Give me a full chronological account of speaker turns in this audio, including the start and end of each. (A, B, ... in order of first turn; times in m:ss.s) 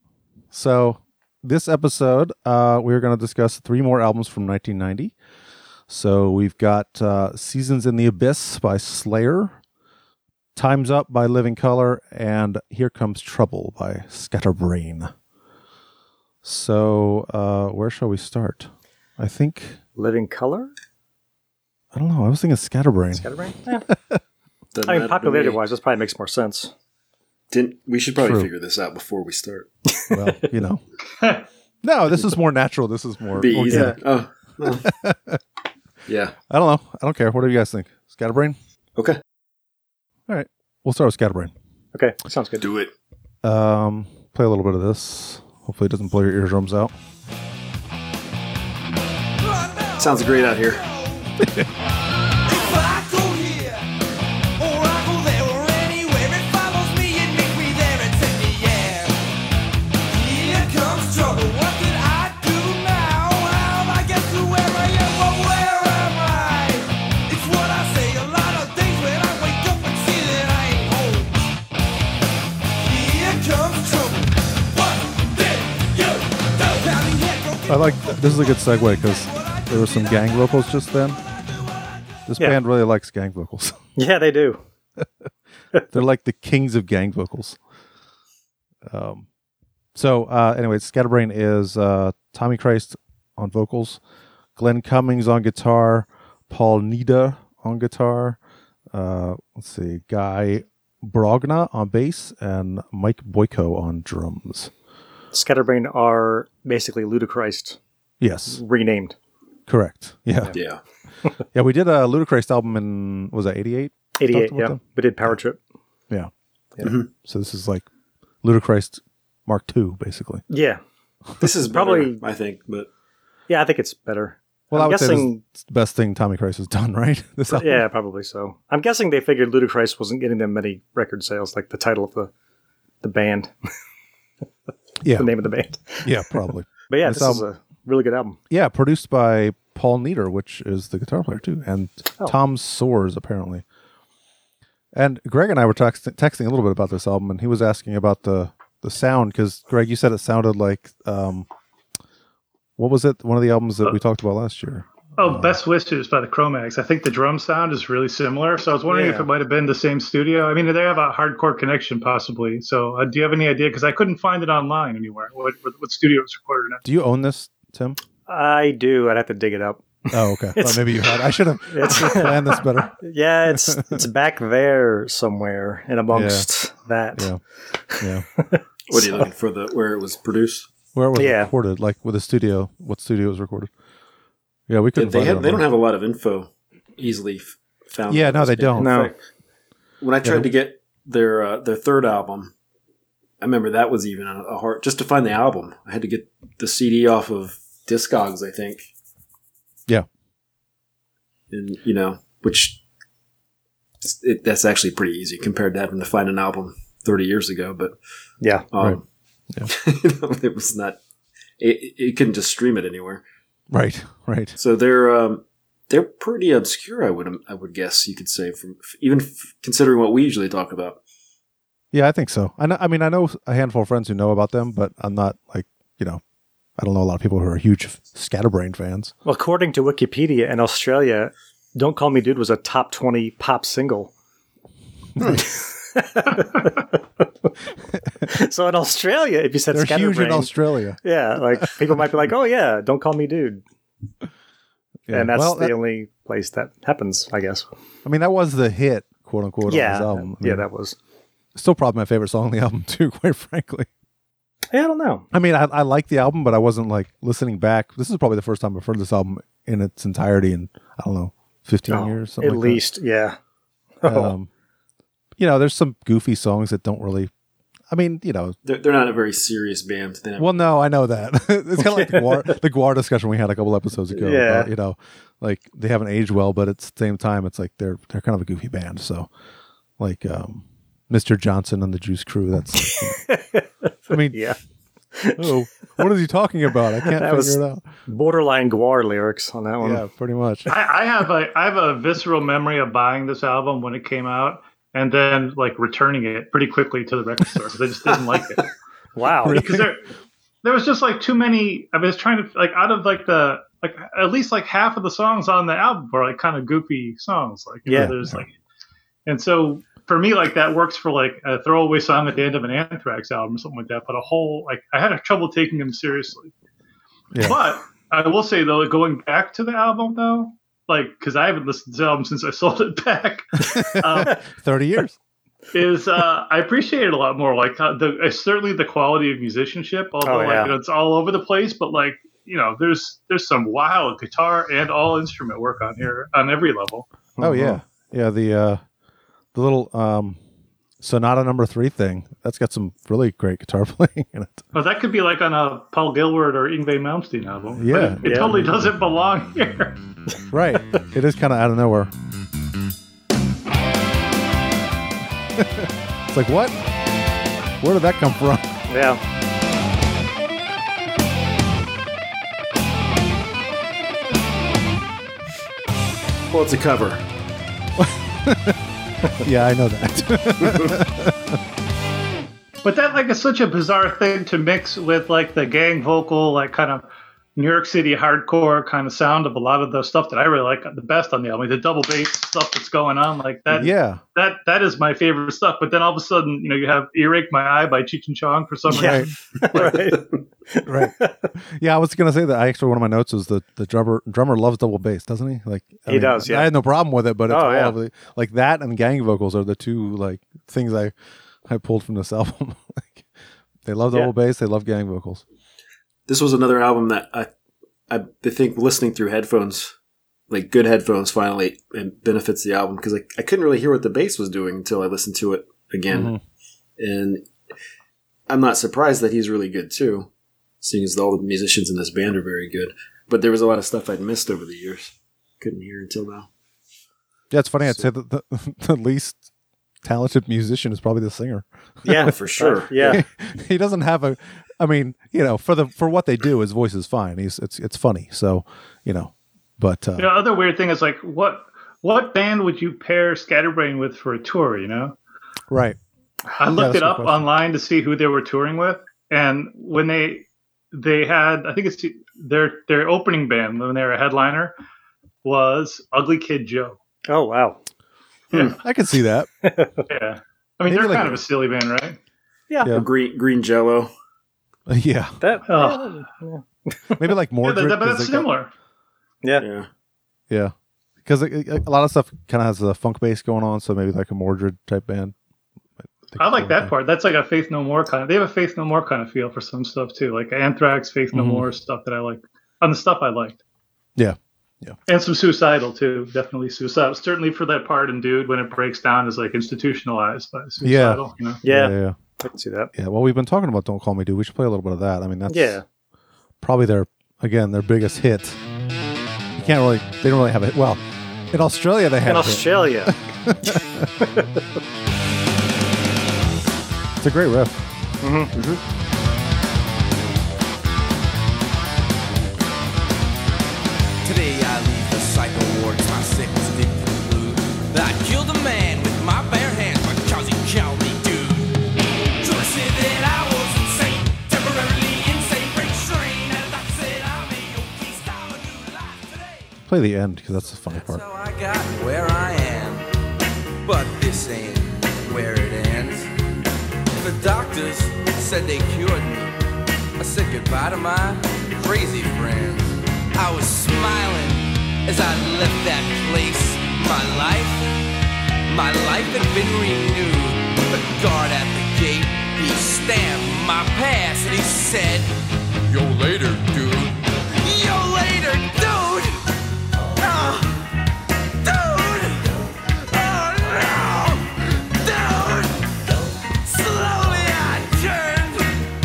0:00.5-0:05.1 A
0:05.9-0:09.6 A
0:10.6-0:15.1 A
0:16.4-0:19.8 A
0:20.0-0:20.7 B
0:21.9-0:23.3 A
0:23.2-0:23.9 B
0:23.9-0:24.2 A
0:24.7-0:25.6 C
0:24.9-0:26.7 B
0:27.5-0:29.7 C
0:28.2-0:28.5 A
0:30.1-0:30.8 A
0:31.8-0:34.0 A
0:33.4-0:34.9 C
0:34.7-0:35.4 A
0:36.1-0:36.4 C
0:36.5-0:38.6 A
0:40.3-0:41.5 A
0:41.9-0:42.7 B
0:42.6-0:42.9 C
0:43.4-0:46.9 A
0:49.4-0:51.3 D
0:50.0-0:50.8 C
0:52.4-0:53.9 D
0:54.6-0:59.2 D
1:00.1-1:11.4 D
1:12.8-1:22.2 D
1:17.7-1:21.2 A
1:22.3-1:23.8 A
1:24.0-1:24.6 B
1:25.9-1:27.6 A
1:28.9-1:29.3 A
1:30.0-1:34.0 A
1:34.6-1:38.4 A
1:38.9-1:44.7 A
1:45.3-1:47.8 B
1:48.2-1:48.6 A
1:48.5-1:49.2 B
1:49.7-1:50.5 A
1:50.5-1:50.8 C
1:51.5-1:55.4 A
1:54.2-1:55.6 B
1:56.8-1:57.1 C
1:57.2-1:57.8 A
1:58.4-2:00.4 A
2:00.5-2:00.8 B
2:01.4-2:02.9 C
2:01.7-2:02.2 B
2:03.5-2:05.4 B
2:04.7-2:07.9 A
2:07.6-2:12.3 B
2:13.0-2:13.5 B
2:15.0-2:15.3 A
2:15.2-2:18.4 B
2:16.0-2:17.4 A
2:18.5-2:23.6 A
2:25.0-2:31.5 A
2:32.8-2:35.6 A
2:35.2-2:46.8 E
2:38.9-2:39.3 B
2:46.8-2:48.0 A
2:48.3-2:49.8 B
2:50.1-2:53.0 A
2:50.6-2:57.3 B
2:53.5-2:54.0 A
2:56.1-2:56.5 A
2:57.2-2:57.4 A
2:57.9-2:59.3 B
2:58.0-2:58.2 A
2:58.9-3:00.7 C
3:01.0-3:03.7 A
3:01.2-3:01.5 B
3:04.7-3:05.7 A
3:05.0-3:09.2 C
3:08.1-3:09.0 A
3:08.8-3:09.1 B
3:10.0-3:12.5 C
3:10.2-3:10.5 A
3:13.4-3:18.9 C
3:21.5-3:22.8 C
3:24.0-3:28.0 C
3:28.7-3:29.0 C
3:29.7-3:31.0 C
3:31.6-3:33.2 C
3:33.7-3:34.6 A
3:34.6-3:41.0 C
3:41.9-3:46.2 A
3:46.8-3:49.1 A
3:49.2-3:54.1 B
3:55.2-3:57.2 B
3:58.2-4:03.6 B
3:59.7-4:01.0 A
4:05.1-4:05.8 A
4:05.1-4:07.6 B
4:08.0-4:10.6 A
4:09.7-4:11.0 B
4:11.6-4:13.9 A
4:14.7-4:15.3 B
4:15.3-4:22.8 A
4:21.9-4:23.4 B
4:24.0-4:24.3 B
4:24.0-4:24.5 A
4:25.4-4:27.3 A
4:27.9-4:28.6 A
4:28.6-4:30.6 C
4:30.4-4:39.3 A
4:31.8-4:32.5 B
4:34.1-4:34.7 B
4:40.0-4:43.2 A
4:43.0-4:43.6 B
4:44.1-4:44.4 A
4:44.3-4:44.6 B
4:45.2-4:45.5 B
4:45.4-4:47.9 A
4:47.0-4:50.1 B
4:49.8-4:50.7 A
4:50.7-4:58.7 E
4:58.1-4:58.6 C
4:59.2-4:59.7 B
4:59.5-4:59.9 A
4:59.5-5:00.0 E
5:00.6-5:08.5 E
5:07.9-5:08.1 B
5:07.9-5:08.4 A
5:09.3-5:16.5 E
5:17.4-5:24.4 E
5:23.8-5:25.2 A
5:25.7-5:37.1 E
5:30.2-5:30.7 B
5:37.4-5:37.8 B
5:37.4-5:38.8 A
5:39.6-5:40.4 A
5:41.0-5:44.6 A
5:44.7-5:50.0 E
5:47.8-5:48.7 A
5:48.2-5:48.7 B
5:50.5-5:52.1 A
5:55.6-5:56.8 A
5:57.8-5:58.6 A
5:58.9-5:59.2 B
6:06.5-6:07.2 C
6:08.0-6:08.8 A
6:09.4-6:11.6 A
6:10.6-6:11.0 C
6:12.8-6:29.4 E
6:23.7-6:24.2 A
6:28.9-6:29.3 A
6:29.6-6:30.2 C
6:29.7-6:31.4 B
6:30.8-6:41.1 A
6:36.1-6:36.7 B
6:37.5-6:38.0 B
6:41.7-6:43.2 A
6:43.8-6:45.4 A
6:46.3-6:47.5 C
6:48.1-6:49.9 C
6:50.5-6:56.4 C
6:56.1-6:56.4 A
6:57.0-6:57.5 C
6:58.5-7:00.3 C
7:00.8-7:06.5 C
7:07.5-7:09.4 A
7:07.8-7:08.1 C
7:10.0-7:11.7 A
7:12.1-7:13.2 B
7:12.1-7:13.2 C
7:13.0-7:20.3 A
7:20.2-7:25.2 E
7:25.7-7:26.0 A
7:26.6-7:34.8 E
7:26.7-7:27.4 A
7:35.4-7:37.0 E
7:37.3-7:37.8 B
7:38.8-7:39.5 A
7:39.6-7:40.0 B
7:40.1-7:42.2 E
7:40.9-7:41.4 A
7:42.7-7:43.0 B
7:42.9-7:44.1 C
7:44.9-7:45.4 A
7:45.4-7:47.2 B
7:45.7-7:46.2 E
7:47.2-7:48.5 A
7:47.6-7:48.7 E
7:49.6-7:49.9 C
7:51.2-7:55.3 A
7:56.3-7:56.9 A
7:56.4-8:03.6 E
8:01.3-8:01.6 A
8:04.2-8:05.0 A
8:05.1-8:11.6 E
8:10.8-8:12.2 A
8:11.6-8:12.9 B
8:13.0-8:15.8 A
8:15.5-8:15.8 B
8:16.6-8:18.6 A
8:19.6-8:24.1 A
8:22.2-8:23.2 B
8:27.2-8:27.8 A
8:28.2-8:28.5 B
8:28.5-8:28.8 C
8:34.2-8:41.8 D
8:42.4-8:49.7 D
8:49.9-8:51.2 A
8:50.9-8:53.1 D
8:53.8-8:56.3 D
8:57.1-8:59.6 D
9:00.2-9:07.9 D
9:08.7-9:15.3 D
9:15.9-9:19.4 D
9:20.2-9:20.8 D
9:21.6-9:25.8 D
9:26.6-9:28.7 D